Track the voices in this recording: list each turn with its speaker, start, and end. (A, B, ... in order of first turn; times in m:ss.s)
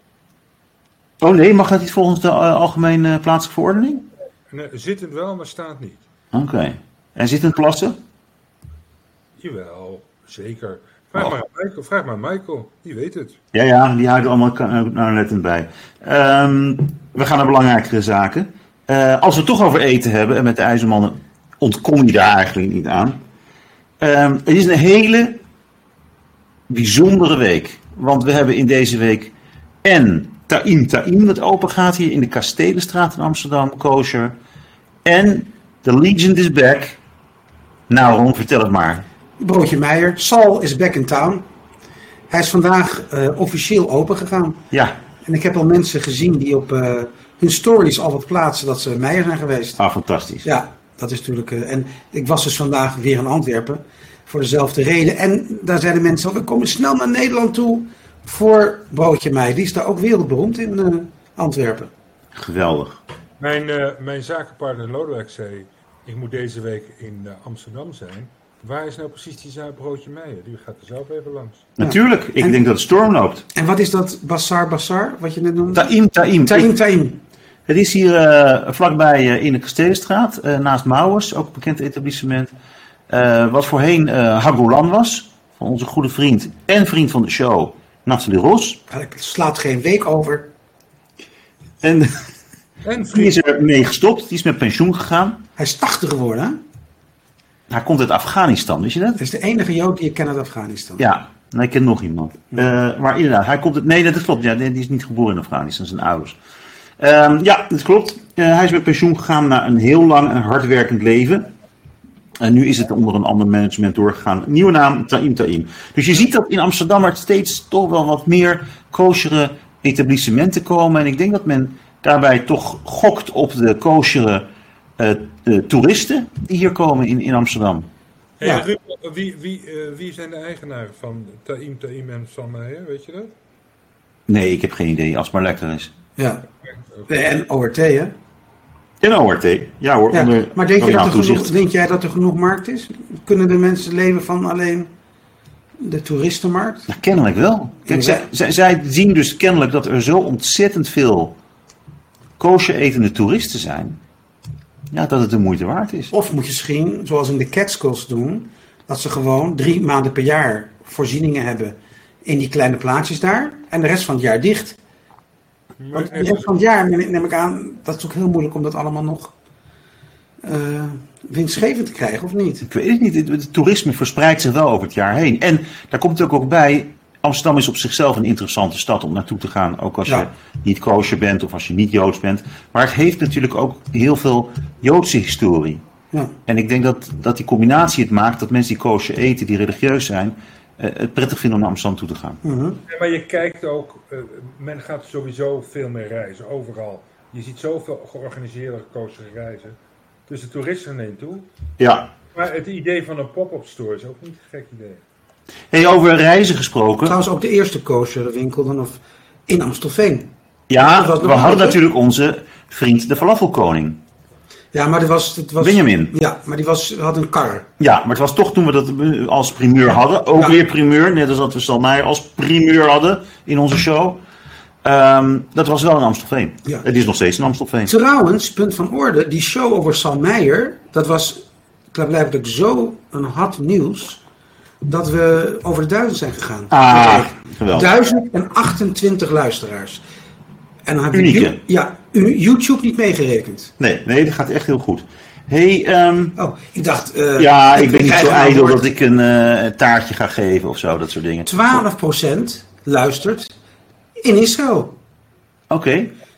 0:01.2-0:04.1 A
0:04.5-0:06.0 B
0:06.3-0:08.0 A
0:09.4-0:13.4 B
0:13.5-0:23.2 A
0:24.0-0:25.4 A
0:26.7-0:34.3 A
0:35.0-0:37.0 A
0:37.9-0:39.0 A
0:39.4-0:41.4 C
0:42.3-0:44.6 C
0:44.7-0:45.0 A
0:45.2-0:49.8 C
0:49.8-0:50.4 A
0:50.4-1:01.9 C
1:02.3-1:03.0 A
1:03.4-1:11.7 B
1:11.8-1:13.4 A
1:11.8-1:12.5 C
1:13.5-1:15.9 C
1:15.7-1:16.7 A
1:16.4-1:17.2 C
1:17.7-1:22.5 A
1:23.1-1:28.8 A
1:28.9-1:30.5 C
1:31.8-1:32.2 A
1:32.8-1:33.4 B
1:33.1-1:35.4 A
1:35.6-1:36.6 C
1:37.7-1:39.2 A
1:39.2-1:41.0 C
1:41.0-1:46.4 A
1:47.0-1:51.5 A
1:52.4-2:07.9 A
2:08.4-2:13.3 B
2:14.3-2:15.9 A
2:16.2-2:16.4 C
2:17.1-2:18.1 C
2:19.0-2:21.5 A
2:20.1-2:24.9 C
2:25.8-2:26.9 C
2:26.9-2:31.4 A
2:27.9-2:28.3 C
2:32.4-2:34.0 A
2:34.9-2:36.1 A
2:36.1-2:44.8 C
2:45.8-2:46.5 B
2:45.9-2:49.3 C
2:50.4-2:52.7 C
2:52.7-3:05.8 A
3:06.5-3:12.4 A
3:12.4-3:12.8 C
3:12.9-3:21.5 B
3:21.8-3:22.1 A
3:22.3-3:25.0 B
3:25.7-3:27.2 A
3:27.0-3:31.8 C
3:30.7-3:34.0 A
3:34.7-3:37.7 C
3:35.6-3:36.1 A
3:37.8-3:44.2 A
3:44.8-3:47.9 A
3:47.9-3:54.2 C
3:54.8-4:00.0 C
3:56.7-3:57.9 A
4:00.8-4:03.7 C
4:01.1-4:01.6 A
4:03.8-4:06.4 A
4:06.4-4:08.8 C
4:07.4-4:11.8 A
4:11.4-4:13.5 C
4:14.2-4:15.0 C
4:15.7-4:16.1 A